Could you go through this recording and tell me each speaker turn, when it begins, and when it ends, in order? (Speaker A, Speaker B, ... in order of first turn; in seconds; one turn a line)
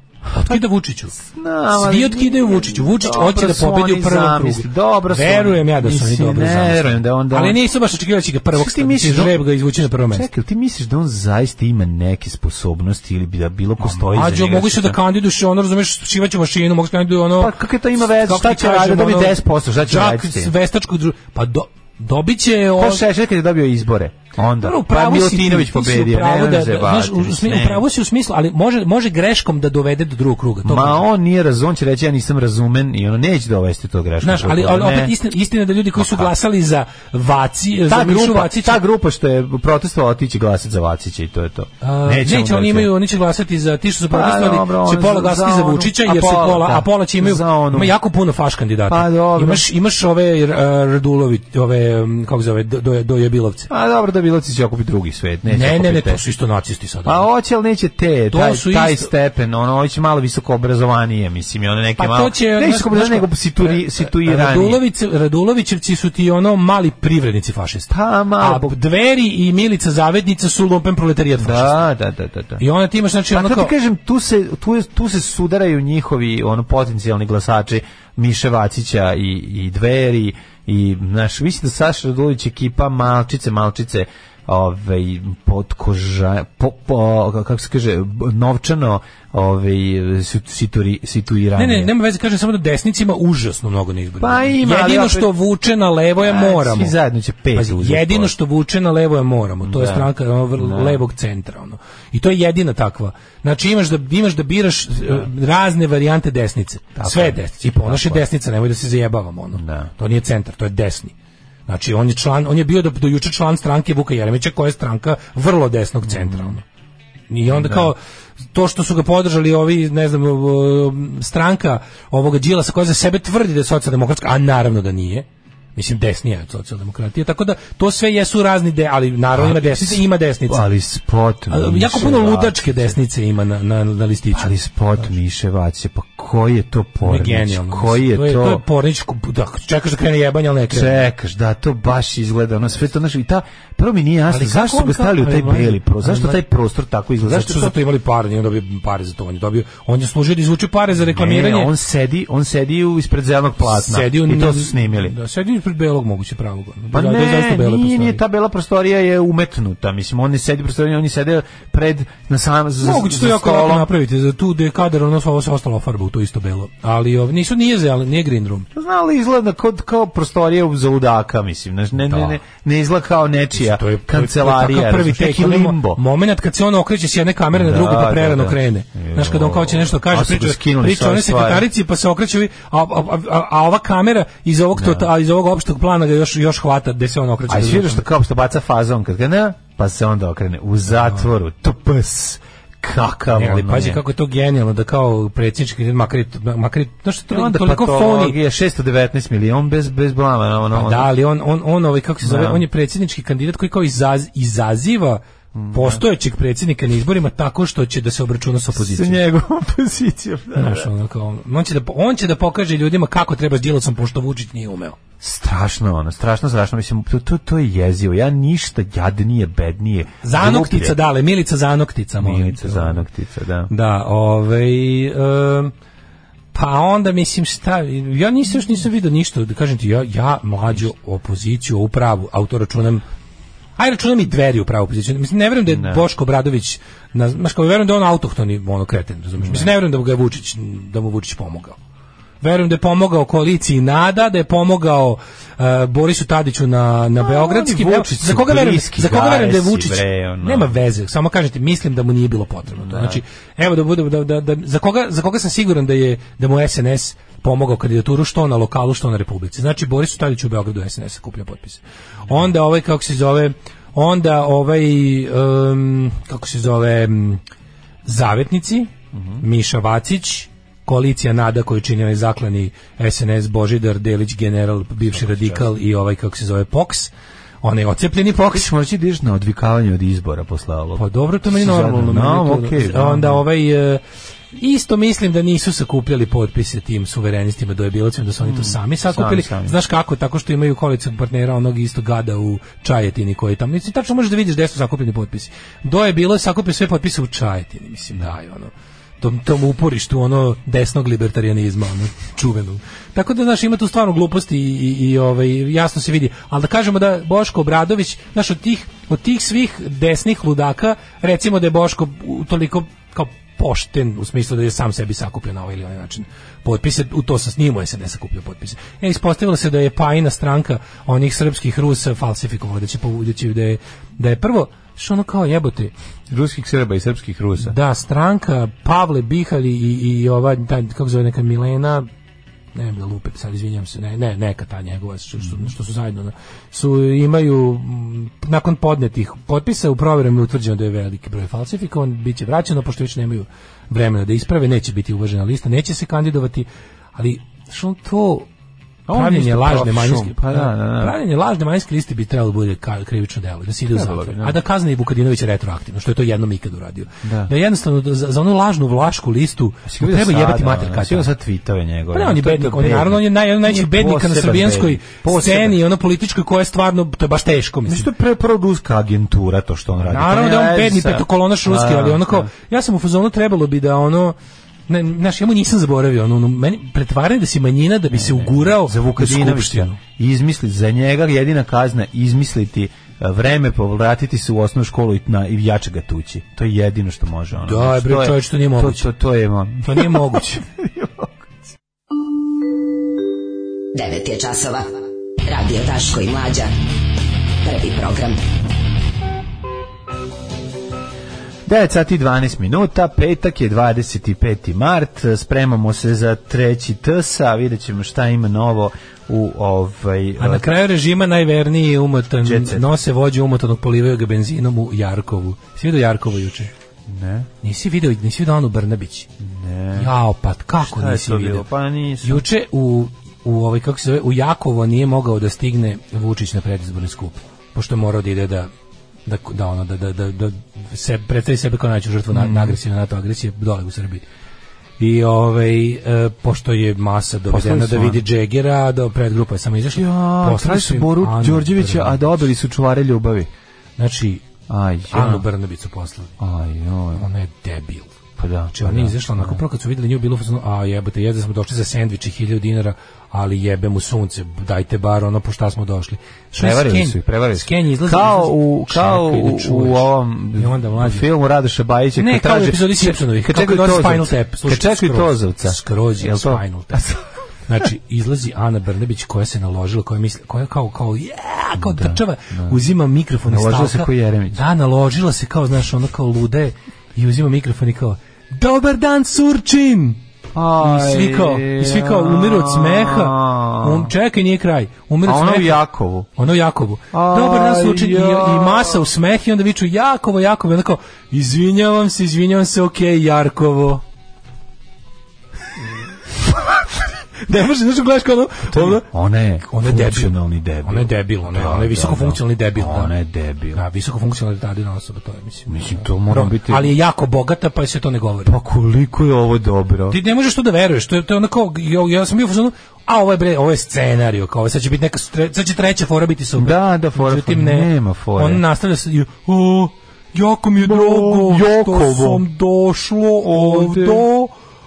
Speaker A: 0.3-0.6
Speaker B: 0.3-1.1
Speaker A: 1.1-7.6
Speaker B: 1.7-10.3
Speaker A: 8.5-9.4
Speaker A: 10.1-15.0
Speaker B: 13.8-23.1
Speaker A: 17.4-20.5
Speaker A: 22.8-27.8
Speaker B: 24.6-31.0
Speaker A: 30.6-35.1
Speaker B: 34.2-38.8
Speaker A: 36.0-36.3
Speaker A: 37.9-42.9
Speaker B: 41.8-53.7
Speaker A: 44.1-47.9
Speaker A: 48.9-49.6
Speaker A: 53.7-56.2
Speaker B: 55.5-57.3
Speaker A: 57.0-64.8
Speaker B: 58.3-59.1
Speaker B: 62.0-71.8
Speaker A: 67.9-68.8
Speaker A: 71.4-72.6
Speaker B: 72.6-73.7
Speaker A: 73.3-91.9
Speaker B: 91.5-96.9
Speaker A: 94.2-95.3
Speaker A: 96.2-98.3
Speaker B: 97.5-111.1
Speaker A: 99.6-101.0
Speaker A: 107.0-108.2
Speaker A: 109.5-109.9
Speaker B: 111.7-116.6
Speaker A: 116.0-116.5
Speaker B: 117.3-118.0
Speaker A: 117.5-117.9
Speaker B: 118.5-130.6
Speaker A: 129.3-132.9
Speaker B: 131.5-135.0
Speaker A: 134.3-138.6
Speaker B: 137.0-141.1
Speaker A: 140.7-147.8
Speaker B: 144.3-146.4
Speaker B: 147.2-151.7
Speaker A: 151.0-155.1
Speaker B: 153.6-158.2
Speaker A: 156.9-163.9
Speaker B: 162.8-168.7
Speaker A: 168.7-176.0
Speaker B: 172.0-172.4
Speaker B: 173.6-188.1
Speaker A: 177.5-181.7
Speaker A: 184.8-185.1
Speaker A: 187.5-194.0
Speaker B: 193.3-198.4
Speaker A: 197.3-201.1
Speaker B: 200.7-209.2
Speaker A: 202.2-202.6
Speaker A: 205.5-206.0
Speaker A: 208.7-210.9
Speaker B: 210.5-215.0
Speaker A: 215.2-221.0
Speaker B: 220.2-223.0
Speaker A: 222.2-223.7
Speaker B: 223.7-225.7
Speaker B: 226.5-233.0
Speaker B: 233.8-241.8
Speaker A: 235.7-236.0
Speaker A: 239.4-239.7
Speaker B: 242.4-267.4
Speaker A: 247.2-250.7
Speaker A: 252.7-253.2
Speaker B: 268.1-278.7
Speaker A: 269.1-269.4
Speaker A: 275.1-275.7
Speaker A: 278.4-283.4
Speaker B: 281.0-284.0
Speaker B: 284.5-325.9
Speaker A: 288.4-289.8
Speaker A: 326.3-327.7
Speaker B: 327.6-332.1
Speaker B: 332.7-348.5
Speaker A: 349.1-351.1
Speaker B: 349.1-361.3
Speaker A: 353.9-354.6
Speaker A: 357.2-357.5
Speaker A: 359.9-365.8
Speaker B: 362.1-368.1
Speaker A: 367.9-372.5
Speaker B: 370.1-374.3
Speaker B: 374.9-380.0
Speaker A: 378.1-391.7
Speaker B: 387.6-389.1
Speaker B: 389.8-390.6
Speaker C: 393.9-394.9
Speaker C: 395.4-396.7
Speaker C: 397.6-398.4
Speaker A: 401.6-410.7
Speaker B: 410.4-416.7
Speaker A: 412.4-412.9
Speaker A: 417.1-417.5
Speaker B: 417.6-419.3
Speaker A: 419.4-420.1
Speaker B: 419.9-421.7
Speaker A: 420.8-422.4
Speaker B: 422.2-428.7
Speaker B: 429.2-434.2
Speaker A: 432.3-432.8
Speaker B: 435.0-442.3
Speaker A: 437.5-438.2
Speaker A: 439.9-443.5
Speaker B: 444.0-444.4
Speaker A: 444.7-445.4
Speaker B: 445.1-446.3
Speaker A: 446.4-447.2
Speaker B: 447.1-448.1
Speaker A: 448.4-449.6
Speaker B: 448.7-461.3
Speaker A: 456.6-467.2
Speaker B: 462.2-467.1
Speaker B: 467.7-480.2
Speaker A: 471.8-472.8
Speaker A: 473.5-474.6
Speaker A: 480.5-484.1
Speaker B: 480.8-485.8
Speaker A: 485.2-486.3
Speaker B: 486.4-494.0
Speaker A: 487.1-489.1
Speaker B: 497.4-499.1
Speaker A: 498.7-503.8
Speaker B: 499.6-503.1
Speaker B: 503.7-508.6
Speaker A: 505.7-506.9
Speaker A: 508.4-510.2
Speaker B: 510.1-524.5
Speaker A: 516.6-518.6
Speaker A: 520.8-522.4
Speaker A: 523.4-524.2